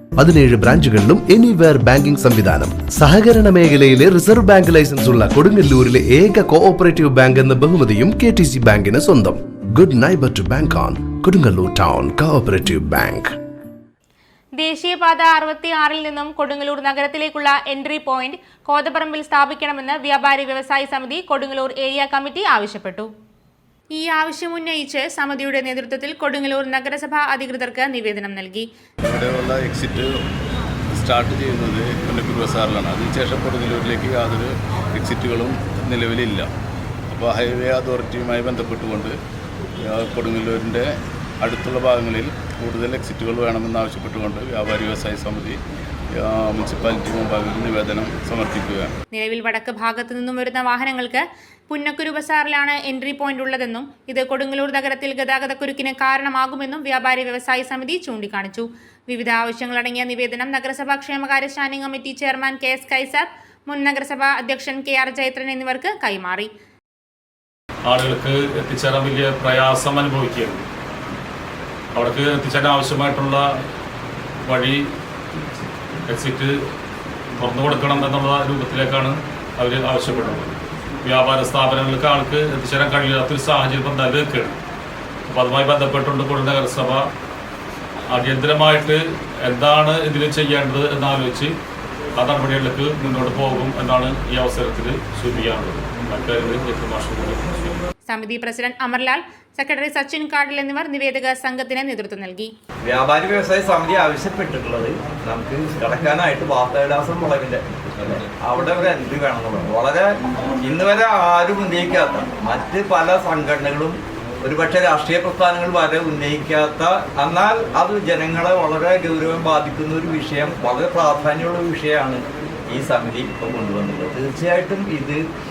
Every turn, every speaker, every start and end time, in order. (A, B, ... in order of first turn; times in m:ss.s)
0:00.2-0:13.3 A
0:14.6-0:23.1 B
0:23.9-0:28.7 B
0:29.0-0:30.1 C
0:30.9-0:36.5 C
0:37.1-0:39.2 C
0:39.8-0:45.6 C
0:46.1-0:48.9 C
0:49.1-1:06.5 B
1:07.8-1:10.6 D
1:11.9-1:13.4 D
1:14.4-1:14.9 D
1:16.1-1:16.5 D
1:17.4-1:24.6 D
1:25.3-1:27.1 D
1:28.1-1:31.5 D
1:32.2-1:37.8 D
1:38.1-1:42.5 B
1:42.8-1:50.1 E
1:50.6-2:05.2 E